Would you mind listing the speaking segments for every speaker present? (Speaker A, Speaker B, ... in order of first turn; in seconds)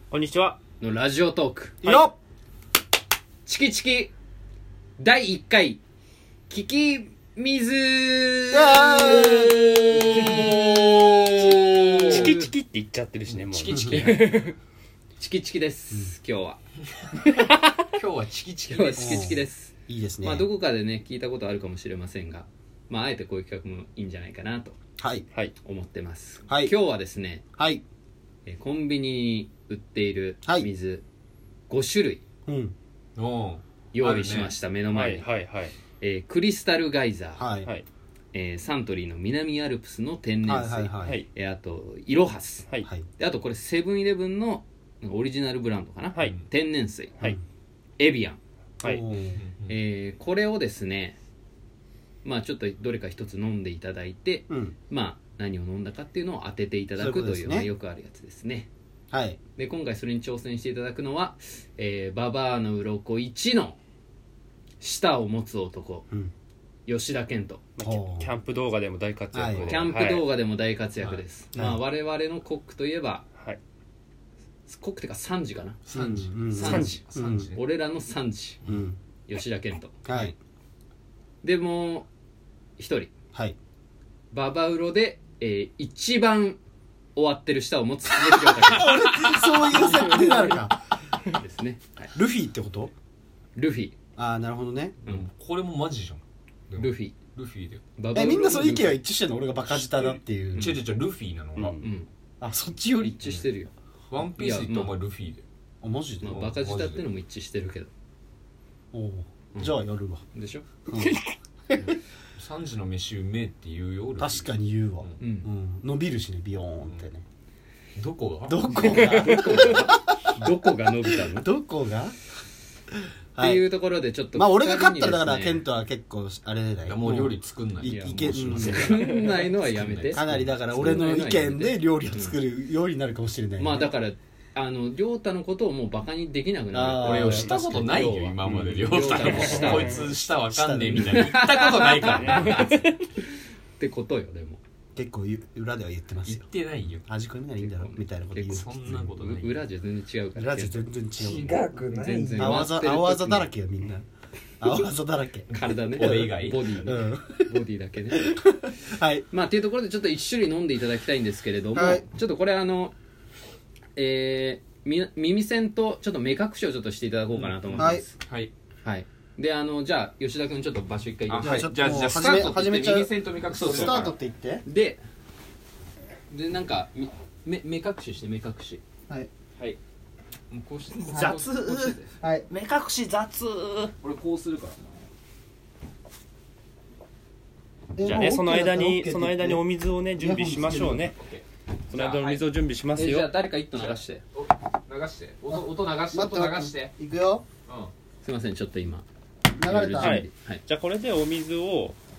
Speaker A: 0.1-0.6, 10.2-10.5, 12.1-14.5, 34.9-35.8, 67.8-70.2, 76.6-77.0, 89.8-90.6, 101.6-101.9, 119.0-119.6, 139.3-139.9, 142.0-142.9, 152.0-152.7, 182.5-183.9, 188.0-191.2, 191.9-193.3, 200.0-202.0
Speaker B: 0.8-2.0, 3.4-4.1, 5.0-5.8, 6.5-12.5, 15.2-16.6, 18.7-24.8, 25.6-27.4, 28.5-31.0, 31.7-32.2, 33.9-35.3, 36.0-37.5, 38.3-47.1, 48.0-48.4, 49.7-51.2, 52.2-58.7, 59.6-63.8, 64.8-66.0, 66.9-67.6, 69.6-73.2, 74.7-75.8, 76.5-78.6, 79.3-80.3, 81.4-82.1, 82.8-83.1, 84.3-86.6, 87.2-88.9, 91.2-92.1, 93.5-93.9, 96.8-97.2, 98.0-99.0, 101.8-102.1, 103.0-104.9, 106.2-107.9, 110.3-110.7, 115.2-115.5, 118.7-121.5, 123.4-125.6, 127.8-132.4, 133.6-140.0, 141.0-144.6, 147.6-150.8, 152.0-153.5, 155.5-158.4, 159.3-162.9, 164.0-168.2, 168.8-172.6, 173.6-174.1, 174.7-175.0, 176.3-178.8, 180.5-182.1, 192.9-194.2, 198.2-199.1, 199.6-200.6
Speaker C: 1.8-2.1, 8.5-9.7, 13.7-14.1, 19.0-20.5, 25.0-25.2, 27.6-27.8, 32.5-32.7, 37.4-37.7, 40.5-41.2, 48.8-49.4, 54.5-54.7, 57.0-57.7, 59.1-59.4, 67.8-68.3, 69.3-69.8, 71.5-71.8, 75.9-77.5, 78.7-79.0, 80.0-80.3, 88.3-90.7, 92.1-92.9, 94.2-95.0, 98.1-100.8, 102.4-103.2, 105.8-106.6, 108.9-110.2, 110.9-111.2, 114.2-117.2, 118.5-120.7, 121.3-122.1, 123.3-123.6, 124.3-129.1, 130.1-133.9, 136.7-137.6, 138.5-141.4, 145.0-146.5, 147.1-149.1, 150.4-151.6, 152.4-154.1, 154.6-157.5, 158.3-159.3, 161.7-162.0, 167.8-168.0, 171.4-174.7, 181.1-182.5, 188.0-189.6, 190.2-191.1, 196.1-197.4, 199.6-200.2
Speaker D: 10.1-12.4, 13.3-14.4, 17.9-19.4, 33.1-34.5, 49.4-49.7, 75.9-77.6, 88.7-89.8, 95.0-97.8, 99.7-101.8, 104.1-105.4, 106.2-107.0, 112.4-114.5, 118.0-118.6, 126.9-131.0, 137.0-142.7, 146.2-147.1, 148.5-149.7, 151.2-152.6, 155.5-156.7, 167.4-168.5, 171.3-174.1, 184.0-184.8, 190.8-192.4, 193.8-196.9, 197.7-197.9